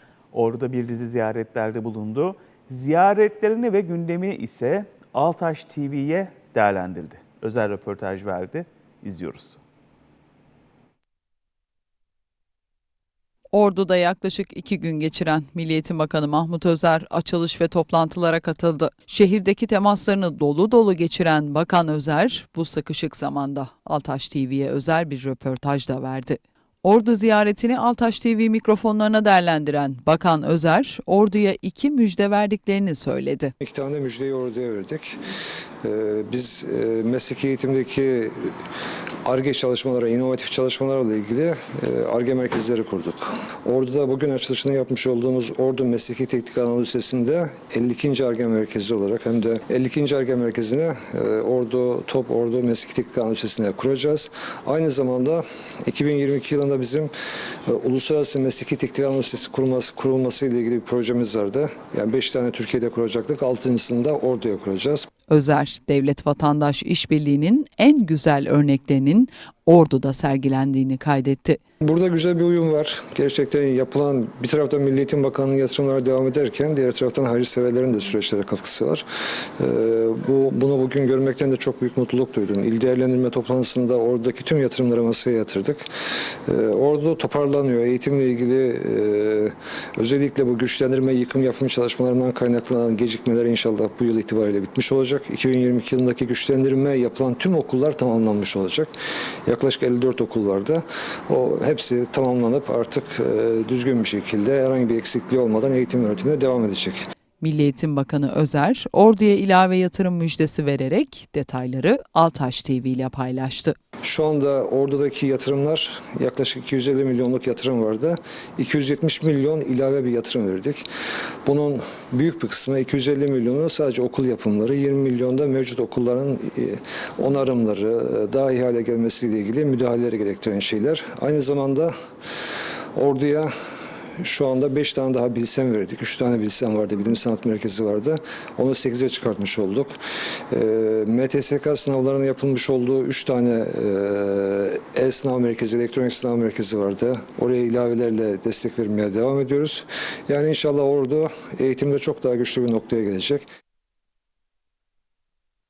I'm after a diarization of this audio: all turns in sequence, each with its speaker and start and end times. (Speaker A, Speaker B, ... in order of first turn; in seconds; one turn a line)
Speaker A: 0.3-9.6
Speaker B: 13.5-33.5
Speaker C: 33.6-35.2
Speaker C: 35.8-38.6
Speaker C: 39.2-57.1
Speaker C: 57.6-65.1
Speaker B: 65.3-71.6
Speaker C: 71.8-79.0
Speaker C: 79.6-85.9
Speaker C: 86.5-98.9
Speaker C: 99.5-107.1
Speaker B: 107.4-113.8
Speaker C: 114.0-120.8
Speaker C: 121.4-131.9
Speaker C: 132.9-133.5
Speaker C: 134.2-139.9
Speaker C: 140.5-153.5